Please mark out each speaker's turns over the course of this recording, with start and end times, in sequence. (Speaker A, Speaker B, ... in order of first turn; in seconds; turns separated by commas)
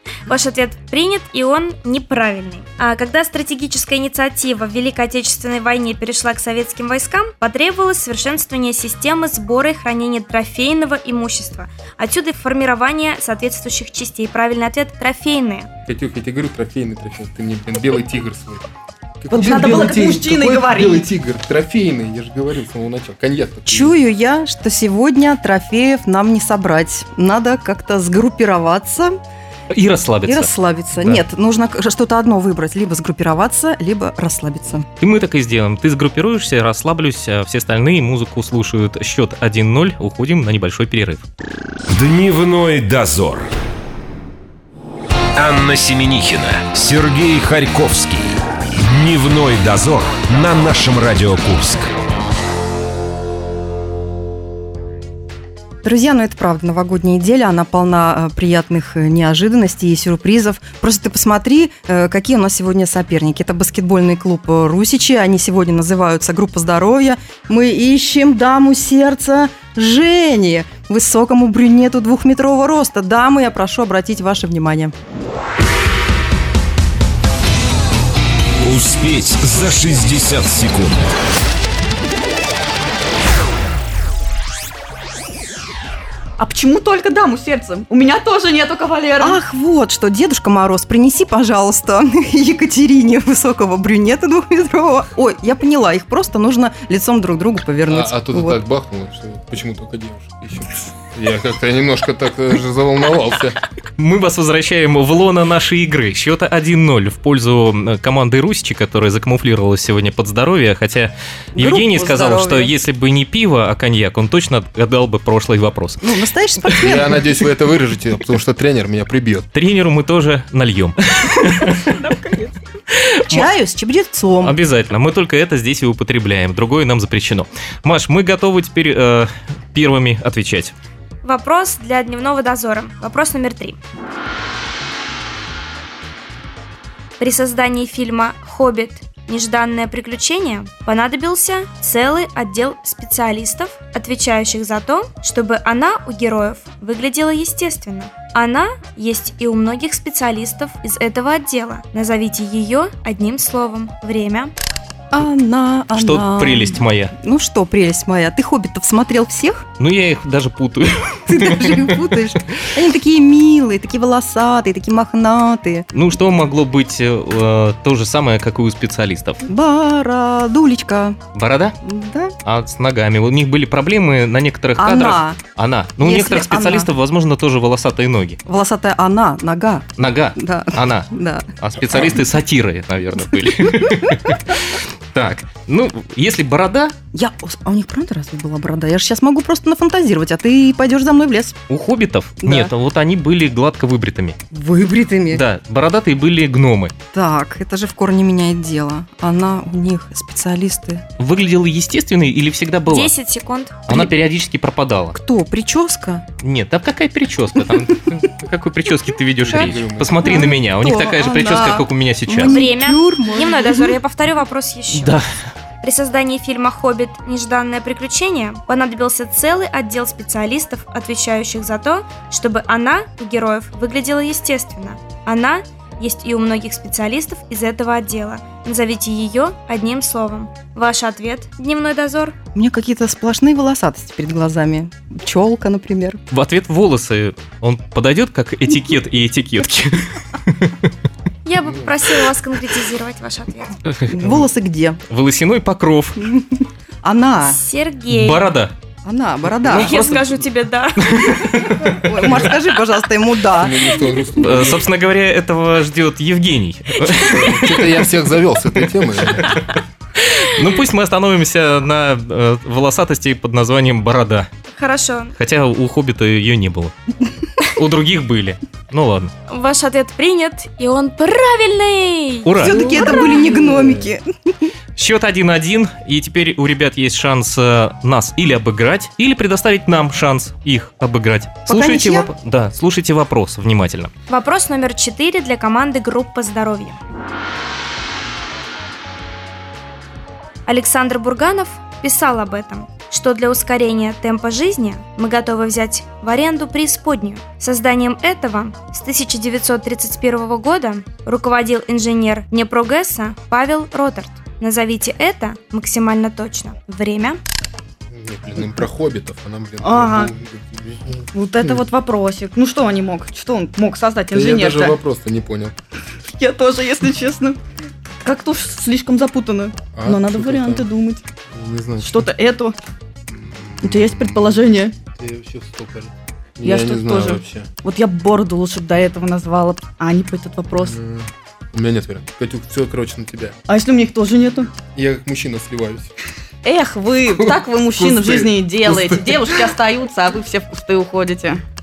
Speaker A: 0.3-15.7, Speaker B: 15.8-18.7, Speaker B: 19.2-24.0, Speaker C: 19.3-21.1, Speaker D: 23.7-29.2, Speaker E: 29.7-31.2, Speaker D: 30.2-34.9, Speaker E: 35.0-41.2, Speaker F: 41.9-43.5, Speaker F: 45.4-51.9, Speaker D: 55.8-74.9, Speaker F: 78.6-81.1, Speaker C: 86.4-89.4, Speaker D: 89.2-98.6, Speaker B: 97.9-103.6, Speaker E: 104.0-116.1, Speaker D: 111.5-112.7, Speaker D: 116.0-117.4, Speaker B: 116.8-119.5, Speaker E: 119.5-122.0, Speaker C: 122.0-122.6, Speaker E: 122.9-123.5, Speaker D: 123.3-124.6, Speaker E: 124.4-130.7, Speaker A: 131.2-133.8, Speaker A: 137.2-154.5, Speaker D: 155.1-159.7, Speaker E: 155.9-157.1, Speaker E: 159.8-162.1, Speaker D: 161.3-165.9, Speaker E: 165.9-169.4, Speaker D: 169.4-171.2, Speaker E: 171.3-171.8, Speaker D: 171.8-172.3, Speaker E: 172.4-178.4, Speaker D: 174.8-175.4, Speaker D: 176.0-176.9, Speaker D: 178.5-182.2, Speaker E: 180.0-186.9, Speaker D: 183.4-184.2, Speaker D: 187.1-191.6, Speaker E: 191.7-194.4, Speaker D: 192.4-192.7, Speaker D: 194.5-195.4, Speaker E: 195.3-196.9, Speaker D: 197.1-201.0, Speaker E: 201.2-203.1, Speaker A: 202.9-203.9, Speaker E: 203.9-205.2, Speaker D: 205.1-206.2, Speaker E: 206.4-212.6, Speaker B: 209.4-210.6, Speaker D: 209.5-214.0, Speaker A: 212.4-215.2, Speaker E: 214.9-215.3, Speaker A: 215.8-232.4, Speaker D: 232.6-236.2, Speaker E: 236.3-240.9, Speaker A: 241.4-243.8, Speaker B: 241.6-242.0, Speaker E: 243.9-244.4, Speaker D: 244.1-245.0, Speaker E: 245.1-246.3, Speaker D: 246.2-246.5, Speaker D: 247.0-247.6, Speaker A: 247.5-248.5, Speaker E: 248.1-248.7, Speaker D: 249.1-249.9, Speaker E: 249.6-250.4, Speaker A: 249.7-251.4, Speaker E: 251.0-252.5, Speaker D: 251.7-254.0, Speaker B: 253.5-254.9, Speaker E: 254.4-258.1, Speaker B: 257.1-259.6, Speaker E: 258.8-259.6, Speaker E: 260.2-264.5, Speaker A: 264.7-265.4, Speaker E: 265.4-266.9, Speaker E: 267.6-269.3, Speaker A: 269.5-273.4, Speaker E: 272.4-273.5, Speaker D: 272.6-274.7, Speaker B: 273.8-274.1, Speaker E: 275.0-284.1, Speaker D: 281.7-282.3, Speaker A: 284.3-287.0, Speaker A: 290.7-307.4, Speaker B: 308.1-311.9, Speaker C: 309.8-310.3, Speaker C: 311.3-315.0, Speaker B: 314.3-315.8, Speaker C: 316.4-317.6, Speaker C: 318.2-321.2, Speaker B: 319.9-320.9, Speaker B: 321.5-322.3, Speaker C: 322.0-322.8, Speaker B: 323.3-327.7, Speaker C: 323.8-324.9, Speaker C: 326.6-331.0, Speaker B: 330.7-333.6, Speaker C: 333.7-334.7, Speaker B: 334.9-336.1, Speaker C: 336.6-341.6, Speaker B: 337.4-339.8